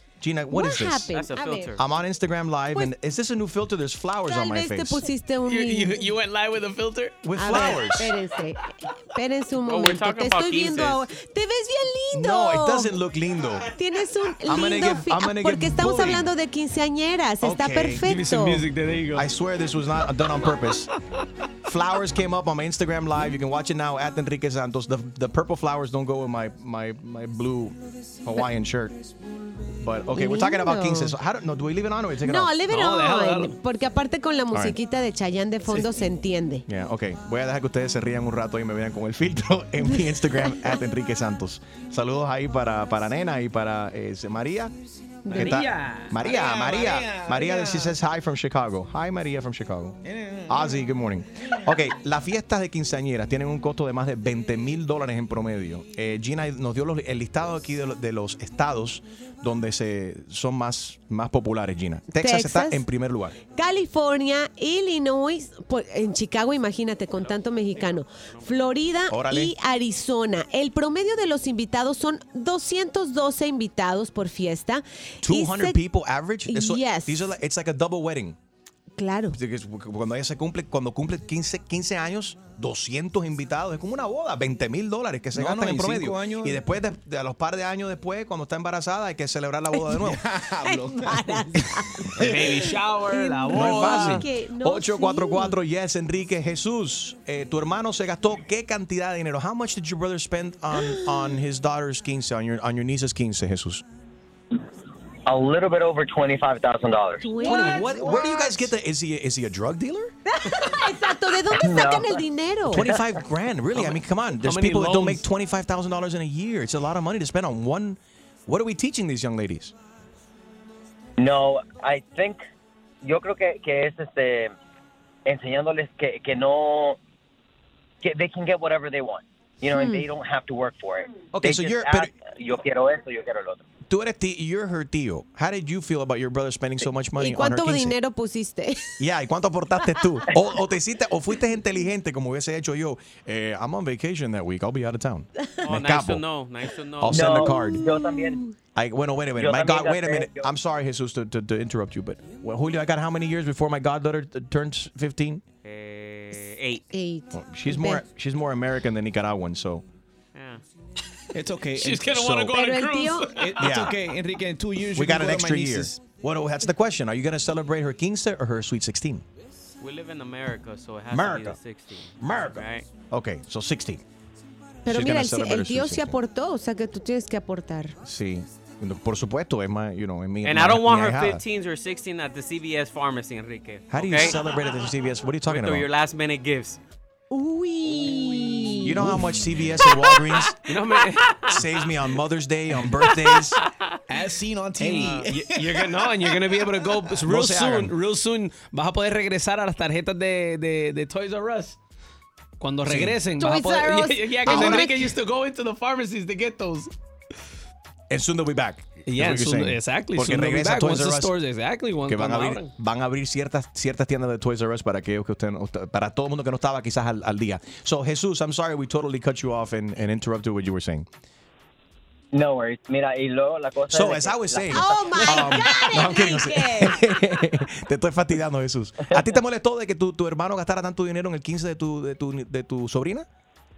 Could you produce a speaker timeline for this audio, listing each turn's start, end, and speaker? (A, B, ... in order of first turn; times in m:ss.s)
0:00.2-0:01.1 A
0:00.5-0:01.8 B
0:01.1-0:01.8 C
0:01.8-0:05.0 A
0:04.3-0:06.1 B
0:05.4-0:07.8 D
0:07.2-0:08.1 A
0:07.4-0:12.9 B
0:09.6-0:11.0 C
0:12.1-0:13.7 A
0:13.8-0:18.7 B
0:14.5-0:16.3 A
0:17.4-0:18.0 A
0:18.0-0:19.3 D
0:19.1-0:20.9 A
0:21.7-0:29.0 A
0:29.8-0:32.5 A
0:30.1-0:31.2 B
0:32.2-0:36.6 B
0:32.7-0:33.6 D
0:36.7-0:44.7 A
0:40.5-0:40.8 B
0:45.3-0:45.6 B
0:45.3-0:46.9 D
0:45.3-1:03.4 A
0:46.2-0:47.8 E
0:50.1-0:50.6 E
1:02.2-1:02.8 B
1:03.5-1:15.8 B
1:07.2-1:08.5 C
1:09.1-1:09.5 A
1:15.2-1:18.4 A
1:16.5-1:17.2 B
1:19.0-1:19.4 B
1:19.3-1:30.2 A
1:25.4-1:26.6 E
1:30.0-1:31.7 E
1:30.6-1:35.6 B
1:32.2-1:34.2 D
1:33.5-1:43.8 A
1:45.3-1:47.4 F
1:47.2-1:48.7 B
1:47.4-1:50.1 A
1:50.3-1:52.9 B
1:51.5-1:52.2 F
1:52.7-1:59.7 A
1:53.7-1:55.2 D
2:01.2-2:02.4 F
2:03.0-2:04.5 F
2:05.3-2:07.0 F
2:08.0-2:13.6 F
2:09.7-2:10.0 B
2:11.3-2:12.1 A
2:13.9-2:18.0 A
2:17.2-2:19.0 B
2:19.0-2:26.2 A
2:25.6-2:27.4 C
2:27.0-2:27.9 A
2:27.1-2:28.4 F
2:27.6-2:28.4 B
2:28.8-2:35.4 A
2:29.4-2:30.5 F
2:35.6-2:36.8 C
2:36.9-2:38.0 B
2:37.3-2:39.8 A
2:40.4-2:40.6 C
2:41.4-2:42.1 E
2:41.8-2:43.6 D
2:42.1-2:42.6 A
2:42.5-2:43.4 B
2:43.4-2:46.0 E
2:43.6-2:44.0 A
2:45.0-2:49.2 A
2:49.8-2:52.9 C
2:51.1-2:51.6 A
2:52.2-2:54.0 A
2:54.9-2:58.0 B
2:54.9-2:56.2 A
2:58.0-3:01.4 A
3:00.4-3:04.4 C
3:03.9-3:05.9 A
3:05.5-3:06.8 C
3:07.3-3:09.2 B
3:08.8-3:10.6 A
3:10.6-3:11.4 D
3:11.5-3:13.6 A
3:13.0-3:13.5 D
3:14.1-3:16.4 E
3:14.8-3:21.8 D
3:17.3-3:17.9 A
3:22.6-3:26.9 D
3:22.8-3:23.2 A
3:23.4-3:25.1 B
3:24.5-3:24.9 A
3:28.1-3:31.3 A
3:29.1-3:32.7 D
3:32.0-3:41.1 A
3:42.3-3:45.6 F
3:43.9-3:53.3 A
3:44.7-3:47.0 B